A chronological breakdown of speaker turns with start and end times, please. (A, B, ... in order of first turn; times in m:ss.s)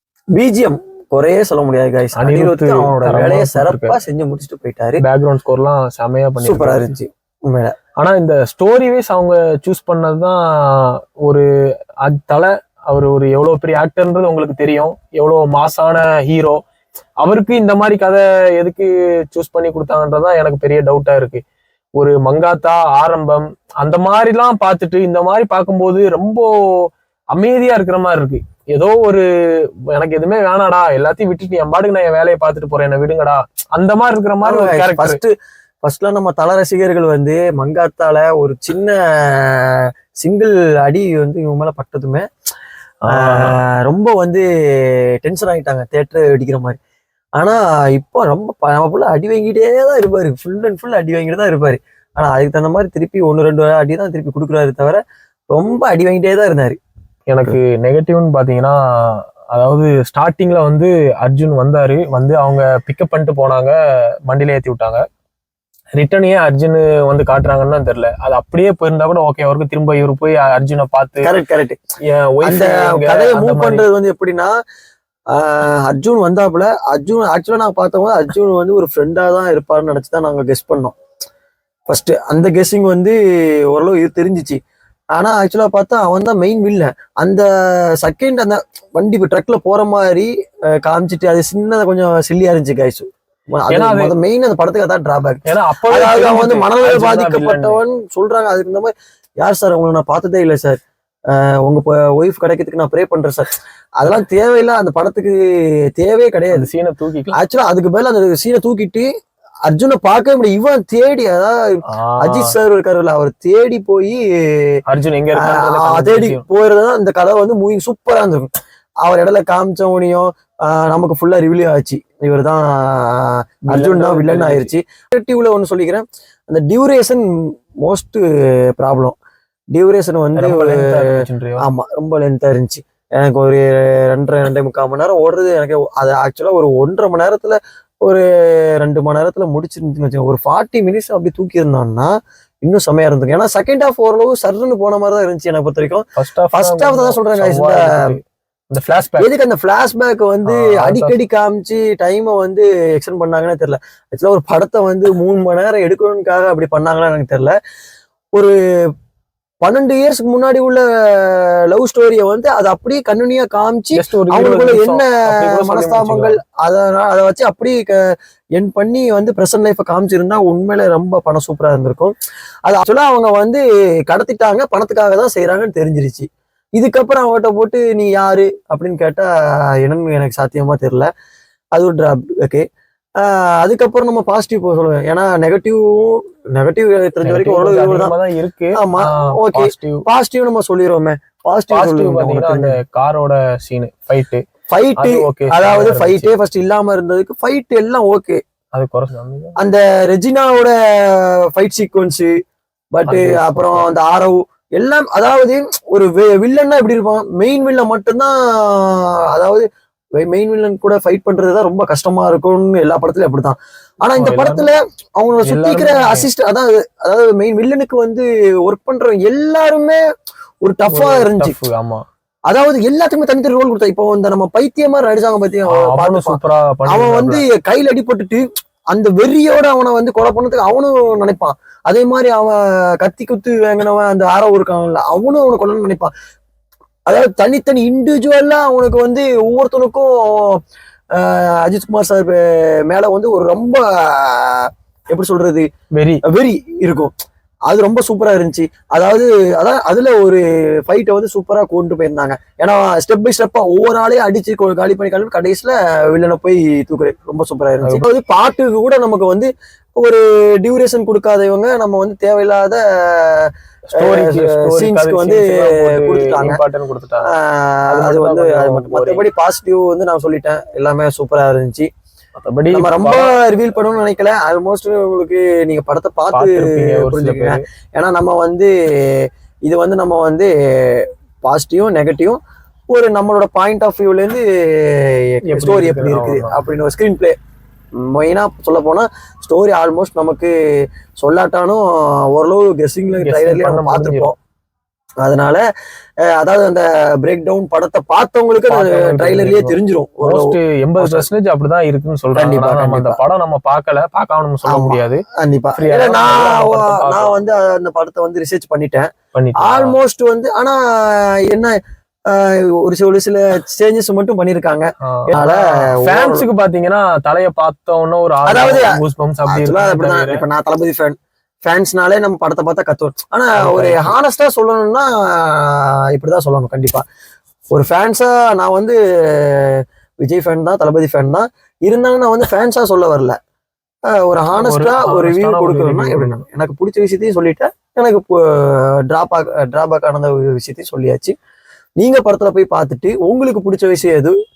0:00.4-0:05.0 A
0:02.2-0:04.0 B
0:05.0-0:06.9 B
0:06.4-0:07.8 A
0:08.0-0:11.4 B
0:12.0-0:16.6 B
0:17.2-0:21.4 B
0:22.0-0:29.2 B
0:29.9-0:35.2 B
0:34.4-0:42.2 A
0:43.0-0:43.6 B
0:43.1-0:46.8 A
0:47.4-0:55.0 A
0:55.5-0:56.8 A
0:57.3-1:03.8 B
1:04.3-1:05.0 B
1:05.9-1:11.3 B
1:11.2-1:11.8 A
1:12.0-1:13.8 B
1:12.4-1:14.5 A
1:15.3-1:20.9 A
1:21.9-1:23.2 A
1:23.7-1:24.6 A
1:25.1-1:27.5 A
1:28.0-1:40.8 A
1:33.7-1:34.1 B
1:35.4-1:37.8 B
1:41.3-1:46.7 A
1:46.5-1:47.4 B
1:47.3-1:49.1 A
1:49.6-1:54.7 A
1:51.9-1:52.5 B
1:54.8-1:56.4 B
1:55.4-1:58.5 A
1:59.0-2:07.2 A
2:03.7-2:04.7 B
2:07.8-2:09.2 A
2:09.7-2:11.0 A
2:10.3-2:11.6 B
2:11.6-2:22.1 A
2:22.6-2:28.2 A
2:26.2-2:29.3 B
2:29.2-2:37.5 A
2:30.4-2:31.2 B
2:39.6-2:52.1 A
2:43.9-2:46.4 B
2:52.6-2:59.3 A
2:59.8-3:01.1 A
3:01.8-3:02.6 A
3:03.2-3:08.1 A
3:07.2-3:10.0 B
3:08.8-3:12.8 A
3:11.7-3:14.4 B
3:14.7-3:18.4 A
3:15.0-3:16.3 B
3:18.7-3:19.6 B
3:19.6-3:22.3 A
3:22.9-3:29.6 A
3:23.1-3:23.8 B
3:30.2-3:40.0 A
3:34.2-3:34.7 B
3:35.4-3:36.3 B
3:40.6-3:41.6 A
3:40.9-3:42.0 B
3:42.5-3:56.1 A
3:45.7-3:47.4 B
3:57.0-4:00.6 A
4:01.1-4:05.7 A
4:05.9-4:06.2 B
4:06.2-4:07.1 A
4:07.7-4:26.6 A
4:23.9-4:27.3 B
4:27.2-4:31.9 A
4:27.9-4:29.2 B
4:32.4-4:33.3 B
4:32.7-4:47.4 A
4:36.3-4:37.6 B
4:45.5-4:46.6 B
4:48.0-4:50.6 A
4:51.2-4:54.3 A
4:53.1-4:54.3 B
4:55.2-4:55.6 A
4:56.3-5:01.3 A
4:58.7-5:05.2 B
5:02.3-5:03.2 A
5:04.7-5:16.4 A
5:05.8-5:07.3 B
5:09.3-5:10.0 B
5:15.1-5:20.4 B
5:18.5-5:19.0 A
5:19.5-5:27.0 A
5:23.6-5:24.2 B
5:27.7-5:33.4 A
5:34.1-5:41.3 A
5:34.6-5:36.4 B
5:42.0-5:44.3 A